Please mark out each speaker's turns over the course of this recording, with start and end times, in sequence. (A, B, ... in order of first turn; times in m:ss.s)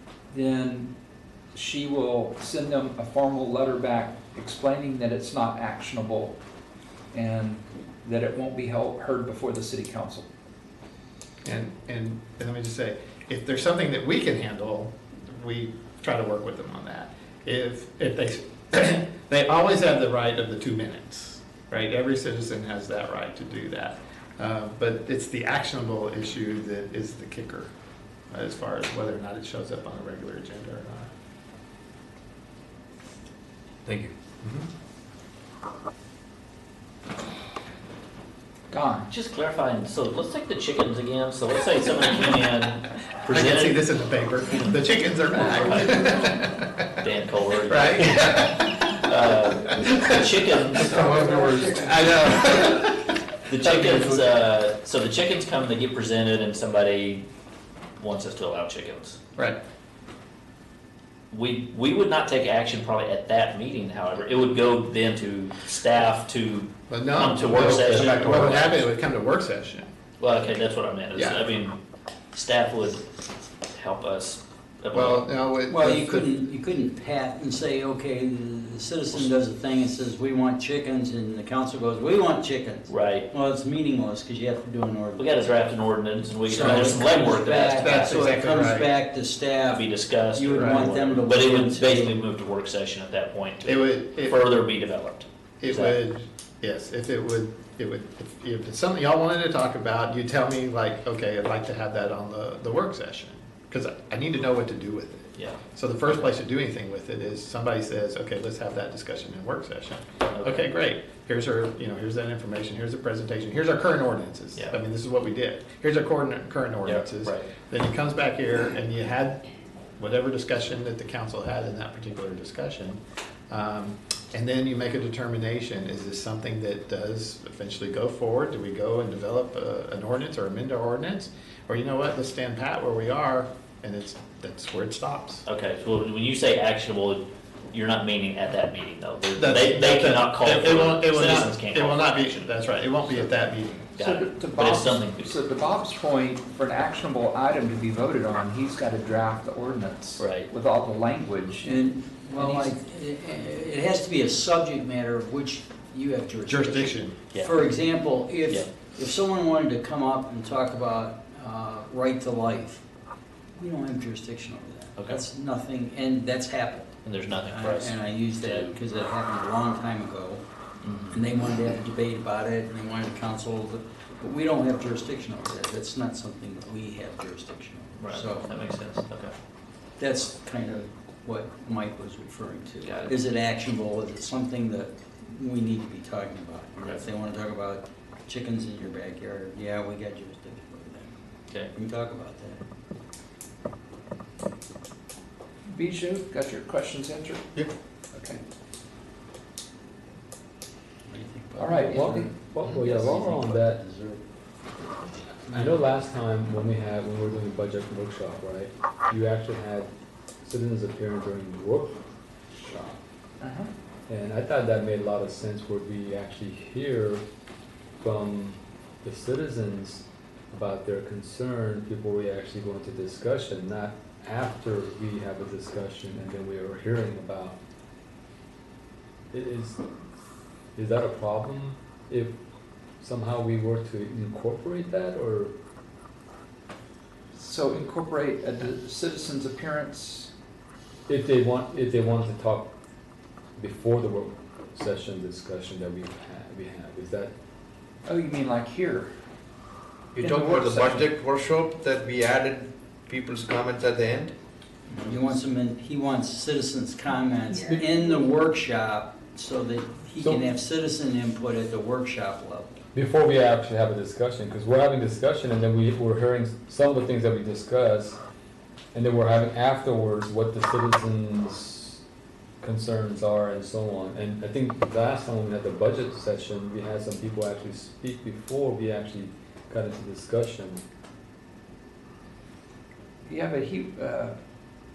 0:00.3-0:00.9 A
0:01.5-0:06.4 A
0:07.1-0:10.3 A
0:11.4-0:27.7 B
0:28.3-0:31.1 B
0:38.7-0:39.1 A
0:39.1-0:43.8 C
0:43.3-0:46.7 B
0:44.5-0:44.8 C
0:45.5-0:46.1 C
0:47.0-0:51.0 C
0:47.7-0:48.9 B
0:49.8-0:50.2 B
0:51.0-0:52.9 B
0:51.0-0:52.5 D
0:53.5-0:57.2 C
0:58.0-0:59.2 C
1:01.3-1:08.8 C
1:06.9-1:09.9 B
1:07.5-1:08.6 E
1:10.2-1:11.8 C
1:11.1-1:11.5 B
1:12.4-1:13.0 C
1:13.7-1:15.3 C
1:14.9-1:16.3 B
1:15.7-1:25.6 F
1:22.9-1:23.3 C
1:25.2-1:28.3 C
1:26.5-1:32.2 F
1:26.6-1:27.0 B
1:27.7-1:28.9 B
1:29.7-1:36.0 C
1:33.6-1:34.4 B
1:35.6-1:59.4 B
1:45.4-1:46.3 C
1:50.3-1:50.6 C
1:56.8-1:57.5 C
2:00.0-2:03.0 B
2:03.5-2:15.4 B
2:15.4-2:23.3 C
2:19.4-2:23.9 B
2:24.0-2:25.4 C
2:24.0-2:31.8 A
2:30.2-2:30.5 C
2:31.6-2:42.8 F
2:32.3-2:32.7 A
2:36.5-2:37.3 B
2:43.6-2:50.4 F
2:45.0-2:45.2 C
2:47.0-2:48.7 C
2:50.8-2:51.2 C
2:51.1-2:58.6 F
2:58.0-2:59.3 C
3:00.0-3:11.1 F
3:02.8-3:03.2 C
3:11.7-3:12.6 F
3:15.7-3:17.4 A
3:18.1-3:18.4 A
3:21.1-3:24.2 F
3:21.6-3:22.3 A
3:21.9-3:23.8 E
3:25.5-3:29.9 E
3:30.4-3:32.0 E
3:32.5-3:33.0 E
3:33.4-3:33.7 A
3:34.1-3:37.2 E
3:38.0-3:47.6 E
3:49.3-3:49.8 E
3:50.8-3:52.4 E
3:53.0-3:55.5 E
3:57.3-4:00.3 A
4:01.1-4:02.7 E
4:03.6-4:07.3 E
4:08.1-4:09.1 A
4:10.2-4:14.3 D
4:10.2-4:11.1 A
4:14.9-4:22.8 F
4:22.9-4:28.2 E
4:28.9-4:32.0 E
4:32.6-4:40.8 E
4:43.2-4:44.4 A